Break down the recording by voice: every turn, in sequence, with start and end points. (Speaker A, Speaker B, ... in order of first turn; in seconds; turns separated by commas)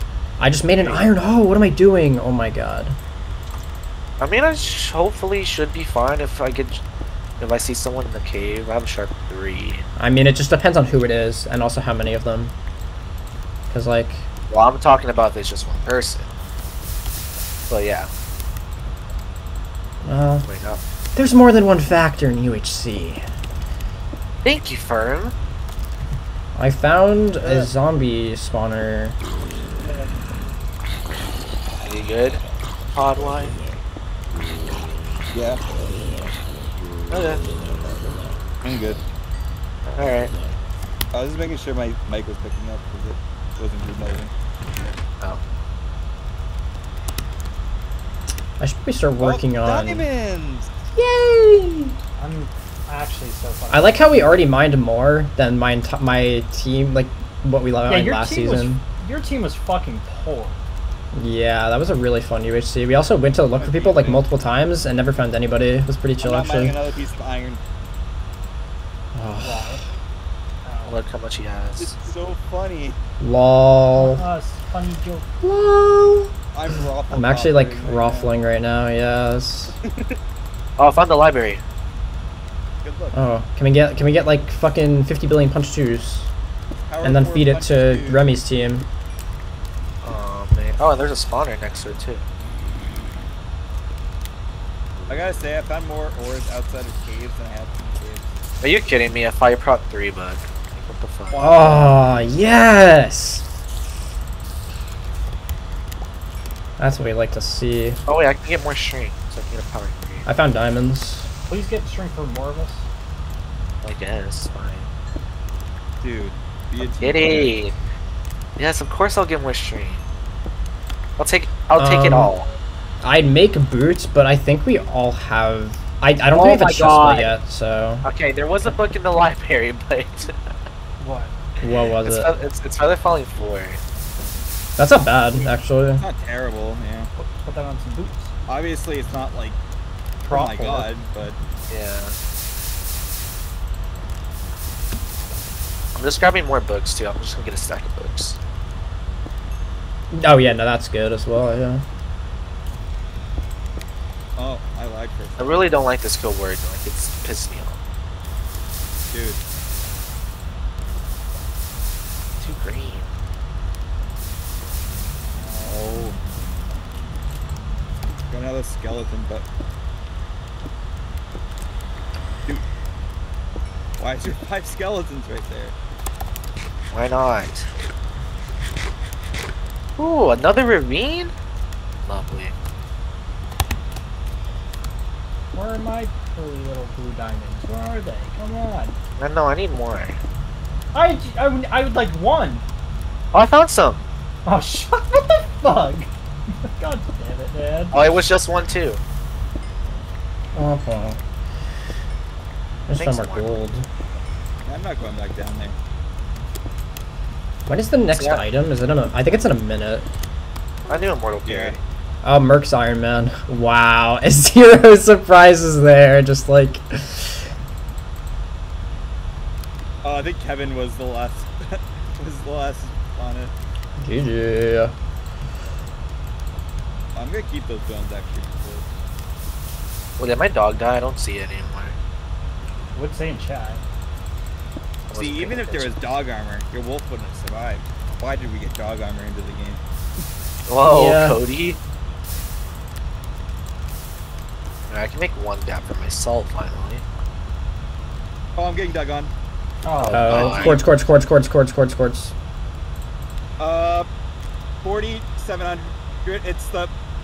Speaker A: 0.4-3.0, Speaker B: 0.8-1.1, Speaker B: 4.2-6.8, Speaker B: 7.4-9.8, Speaker A: 10.0-12.5, Speaker A: 13.7-14.3, Speaker B: 14.5-16.3, Speaker B: 17.7-18.1, Speaker A: 20.0-20.6, Speaker B: 20.4-20.8, Speaker A: 21.2-23.2, Speaker B: 24.4-25.3, Speaker A: 26.6-29.2, Speaker B: 27.4-27.7, Speaker B: 31.8-32.4, Speaker B: 32.9-33.6, Speaker C: 35.3-35.6, Speaker B: 37.1-37.5, Speaker C: 38.6-39.0, Speaker B: 39.9-40.3, Speaker C: 41.1-44.3, Speaker A: 48.6-50.1, Speaker C: 49.2-50.7, Speaker A: 51.0-51.9, Speaker D: 52.2-54.4, Speaker A: 53.7-58.8, Speaker D: 57.9-60.6, Speaker A: 61.1-66.8, Speaker C: 63.5-64.3, Speaker C: 66.2-67.6, Speaker A: 69.2-69.9, Speaker D: 69.4-69.8, Speaker D: 70.6-71.0, Speaker B: 70.9-72.0, Speaker C: 71.8-73.0, Speaker A: 73.2-74.2, Speaker D: 74.0-75.3, Speaker A: 75.4-76.3, Speaker C: 76.5-78.3, Speaker A: 77.1-79.8, Speaker C: 79.8-80.2, Speaker B: 80.8-81.6, Speaker C: 82.8-83.2, Speaker A: 83.1-86.3, Speaker C: 86.9-88.3, Speaker A: 87.0-88.9, Speaker B: 90.0-92.2, Speaker C: 95.1-98.3, Speaker B: 98.6-101.8, Speaker C: 101.3-102.3, Speaker A: 101.4-103.5, Speaker A: 106.8-108.0, Speaker B: 108.1-110.3, Speaker A: 110.2-111.3, Speaker D: 111.5-112.9, Speaker B: 113.8-114.9, Speaker C: 116.0-117.6, Speaker B: 117.0-117.7, Speaker B: 118.6-120.0, Speaker B: 121.2-122.5, Speaker A: 121.8-122.3, Speaker A: 123.0-128.1, Speaker B: 126.3-127.3, Speaker B: 128.0-130.3, Speaker D: 131.0-131.3, Speaker A: 131.6-132.3, Speaker B: 132.0-133.8, Speaker A: 134.8-136.0, Speaker C: 136.0-137.1, Speaker D: 137.2-138.3, Speaker C: 138.5-139.6, Speaker D: 140.2-140.9, Speaker C: 140.2-141.4, Speaker B: 141.7-142.2, Speaker B: 145.9-148.4, Speaker A: 150.1-151.8, Speaker C: 154.4-155.9, Speaker B: 155.4-157.8, Speaker C: 159.1-159.4, Speaker B: 162.4-163.1, Speaker C: 165.4-166.2, Speaker C: 168.3-169.4, Speaker C: 174.0-175.8, Speaker B: 176.9-177.7, Speaker B: 180.0-181.3, Speaker B: 182.1-182.5, Speaker D: 185.5-189.0, Speaker B: 189.2-190.2, Speaker D: 190.9-192.6, Speaker B: 193.3-194.0, Speaker D: 194.4-196.1, Speaker D: 196.7-198.0, Speaker B: 197.9-199.0, Speaker A: 200.6-201.2, Speaker A: 202.9-203.9, Speaker B: 203.0-203.4, Speaker C: 204.7-205.8, Speaker A: 207.7-210.1, Speaker B: 208.2-208.4, Speaker B: 210.9-211.8, Speaker C: 211.5-211.8, Speaker A: 212.2-217.5, Speaker C: 220.0-223.5, Speaker A: 224.0-224.9, Speaker C: 227.2-228.9, Speaker B: 230.2-232.0, Speaker D: 232.9-233.8, Speaker B: 235.1-235.9, Speaker C: 235.1-239.8, Speaker B: 240.7-241.8, Speaker A: 240.8-241.4, Speaker B: 244.9-247.0, Speaker C: 248.6-249.3, Speaker D: 249.8-250.7, Speaker A: 250.1-252.3, Speaker C: 250.1-251.1, Speaker B: 250.2-250.8, Speaker C: 253.6-254.1, Speaker C: 254.8-256.9